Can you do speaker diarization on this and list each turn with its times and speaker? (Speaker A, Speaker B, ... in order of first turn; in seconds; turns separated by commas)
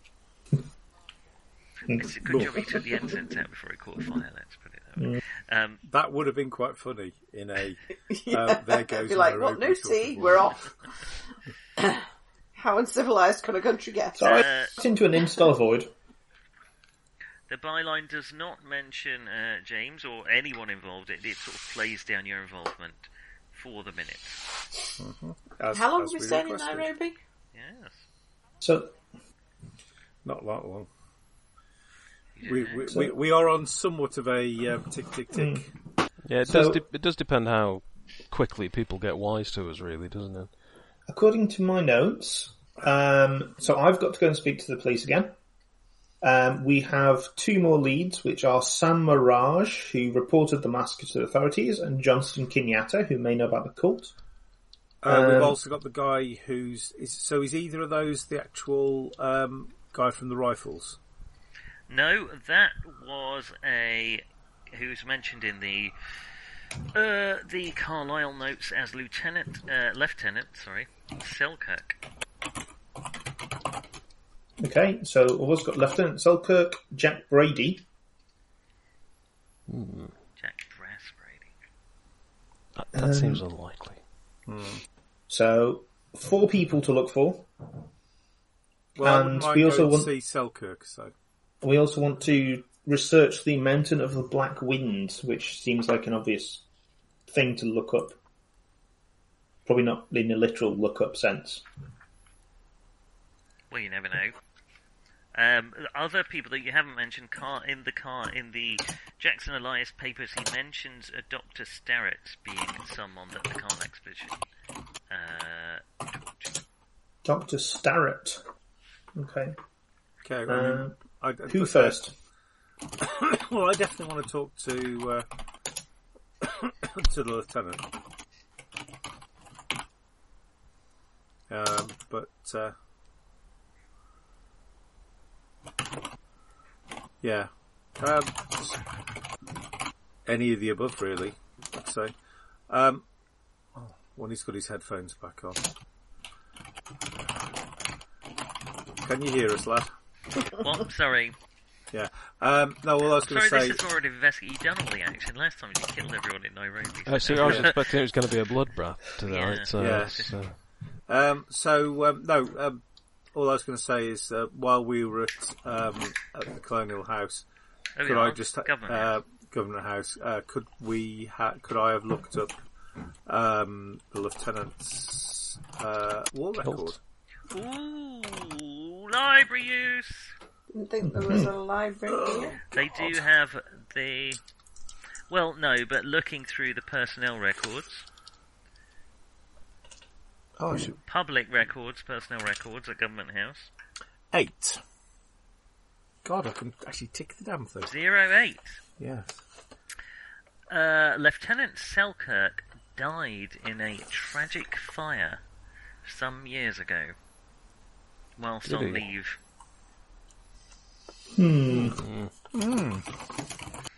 Speaker A: 1.9-2.5, Speaker B: 1.9-5.8, Speaker C: 2.3-2.7, Speaker C: 5.8-10.7, Speaker D: 8.1-10.6, Speaker D: 12.5-14.2, Speaker A: 14.2-15.9, Speaker B: 14.2-14.7, Speaker B: 17.5-24.4, Speaker C: 25.0-26.9, Speaker D: 25.7-27.2, Speaker B: 27.5-28.0, Speaker A: 28.6-28.9, Speaker C: 30.2-30.9, Speaker B: 32.4-33.0, Speaker C: 32.4-35.6, Speaker A: 35.3-35.7, Speaker E: 36.2-40.5, Speaker A: 36.4-36.8, Speaker A: 41.1-45.3, Speaker A: 46.2-54.1, Speaker C: 55.0-61.0, Speaker A: 55.0-55.6, Speaker B: 61.9-65.9, Speaker B: 66.9-72.0, Speaker A: 74.6-77.8, Speaker E: 79.7-80.1, Speaker B: 80.4-81.5, Speaker E: 82.8-84.0, Speaker A: 82.9-83.4, Speaker C: 84.5-84.8, Speaker A: 85.3-87.5, Speaker C: 88.9-91.1, Speaker A: 89.0-90.1, Speaker A: 91.6-96.6, Speaker A: 97.3-98.2, Speaker A: 99.7-101.6, Speaker B: 103.7-104.3, Speaker B: 105.3-114.4, Speaker B: 115.1-115.8, Speaker A: 117.2-118.4, Speaker A: 119.1-119.5, Speaker C: 120.2-122.0, Speaker A: 120.5-122.1, Speaker C: 123.0-125.2, Speaker C: 126.4-127.8, Speaker C: 131.5-132.7, Speaker C: 137.2-138.8, Speaker C: 140.2-142.1, Speaker C: 142.7-143.0, Speaker C: 143.7-145.6, Speaker C: 149.0-149.9, Speaker B: 150.5-151.3, Speaker C: 151.9-153.8, Speaker B: 153.0-157.9, Speaker E: 157.1-160.6, Speaker C: 157.4-157.7, Speaker B: 159.2-160.3, Speaker C: 159.7-160.3, Speaker C: 161.1-162.8, Speaker C: 163.3-167.4, Speaker B: 167.9-169.2, Speaker C: 168.0-172.5, Speaker C: 173.2-177.0, Speaker E: 176.6-176.9, Speaker B: 177.5-180.3, Speaker D: 180.7-182.6, Speaker A: 181.1-181.5, Speaker C: 182.1-183.2, Speaker B: 182.7-184.4, Speaker B: 185.3-188.1, Speaker C: 190.6-191.0, Speaker B: 191.1-193.7, Speaker C: 194.3-194.8, Speaker C: 196.2-197.9, Speaker B: 197.8-198.8, Speaker C: 199.0-199.4, Speaker B: 200.7-205.4, Speaker B: 206.0-207.1, Speaker B: 208.4-209.4, Speaker E: 208.6-209.0, Speaker A: 211.3-212.0, Speaker E: 211.8-212.3, Speaker C: 212.5-213.1